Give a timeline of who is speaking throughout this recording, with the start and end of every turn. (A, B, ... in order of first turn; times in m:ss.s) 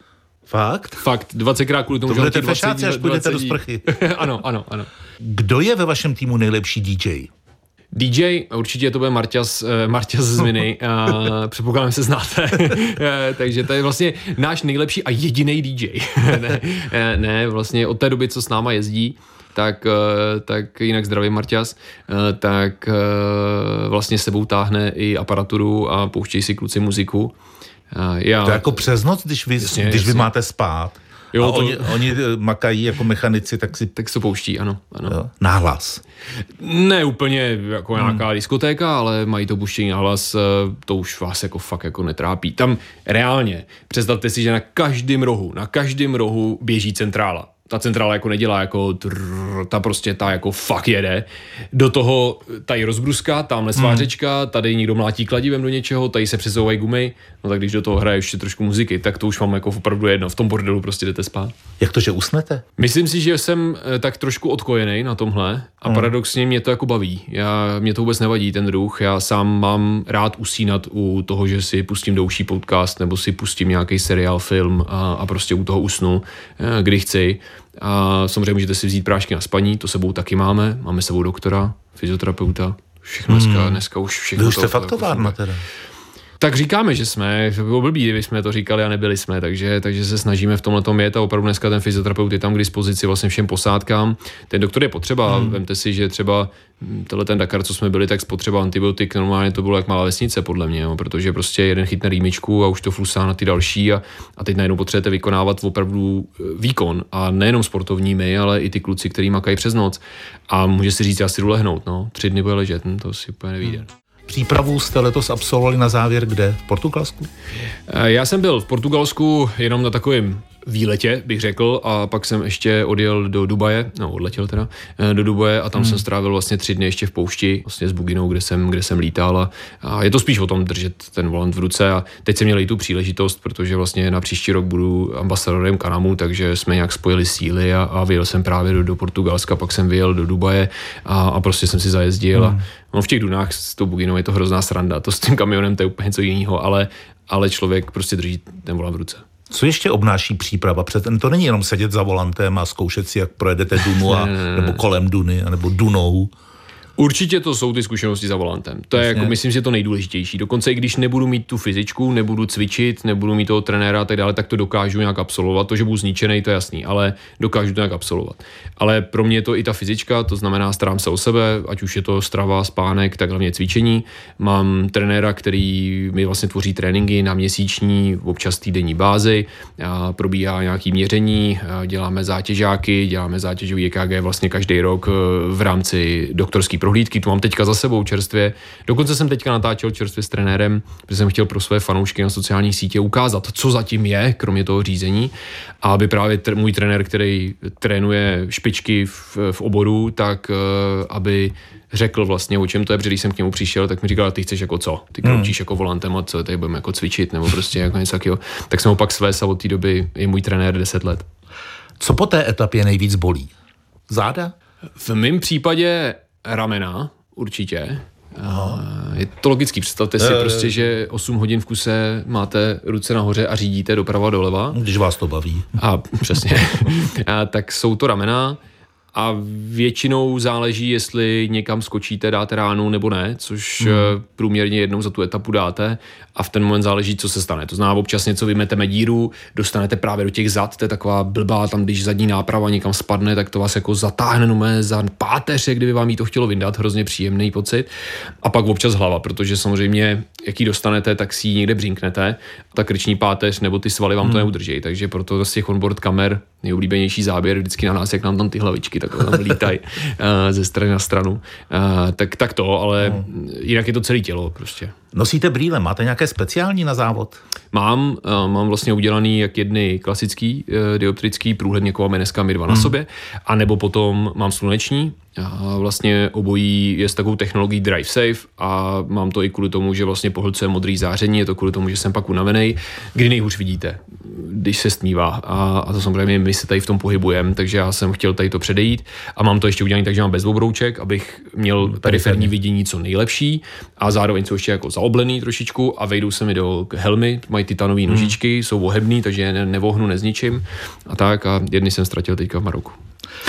0:00.5-0:01.0 A
0:01.0-0:04.9 B
0:02.1-0:03.9 A
0:05.2-0:07.3 A
0:07.9-0:27.3 B
0:27.9-0:28.7 B
0:28.4-0:33.9 A
0:29.6-0:30.3 B
0:31.3-0:32.2 B
0:34.0-0:35.2 B
0:35.1-0:36.0 A
0:36.6-1:01.5 B
0:38.0-0:38.2 A
0:53.8-0:54.1 A
1:01.8-1:02.6 A
1:02.8-1:25.4 B
1:05.8-1:06.1 A
1:23.3-1:23.8 A
1:24.4-1:25.6 A
1:26.4-1:53.9 B
1:35.3-1:35.6 A
1:54.3-1:57.3 A
1:57.9-2:29.2 B
2:05.8-2:06.0 A
2:22.4-2:22.6 A
2:29.5-2:36.3 A
2:34.0-2:34.8 B
2:37.0-3:31.3 B
2:39.0-2:39.4 A
3:25.2-3:25.5 A
3:32.0-3:33.5 A
3:34.1-3:34.5 A
3:35.0-3:44.8 B
3:38.4-3:38.8 A
3:40.2-3:40.7 A
3:44.7-3:45.8 A
3:45.8-3:48.6 B
3:49.1-4:07.9 B
3:53.8-3:54.2 A
4:08.4-4:25.0 B
4:14.2-4:14.5 A
4:23.0-4:23.3 A
4:25.1-4:27.4 A
4:27.7-5:03.0 B
4:51.8-4:52.5 A
4:58.1-4:58.4 A